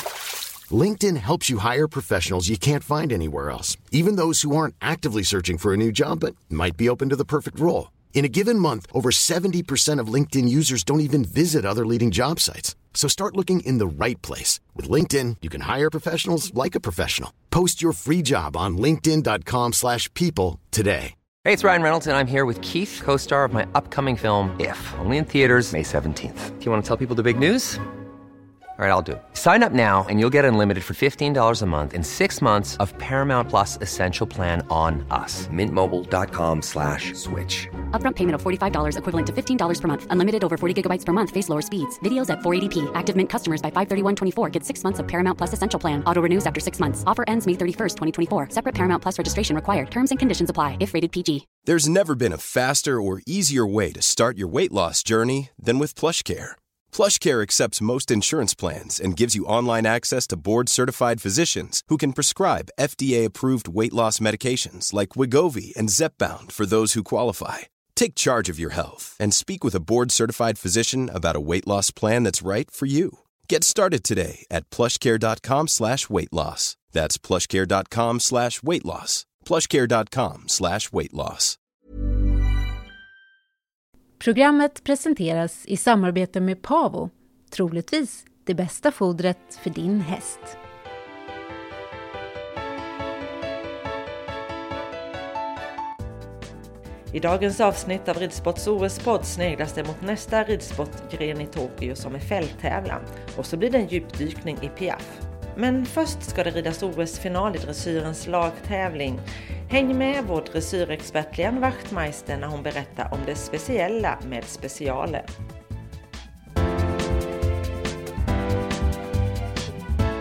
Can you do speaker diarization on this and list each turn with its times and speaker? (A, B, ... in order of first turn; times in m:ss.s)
0:00.7-0:21.1 A
0:21.4-0:27.8 B
0:28.8-0:37.8 B
0:37.9-0:51.4 C
0:51.6-1:21.6 D
1:24.2-1:30.6 E
1:37.1-1:55.2 F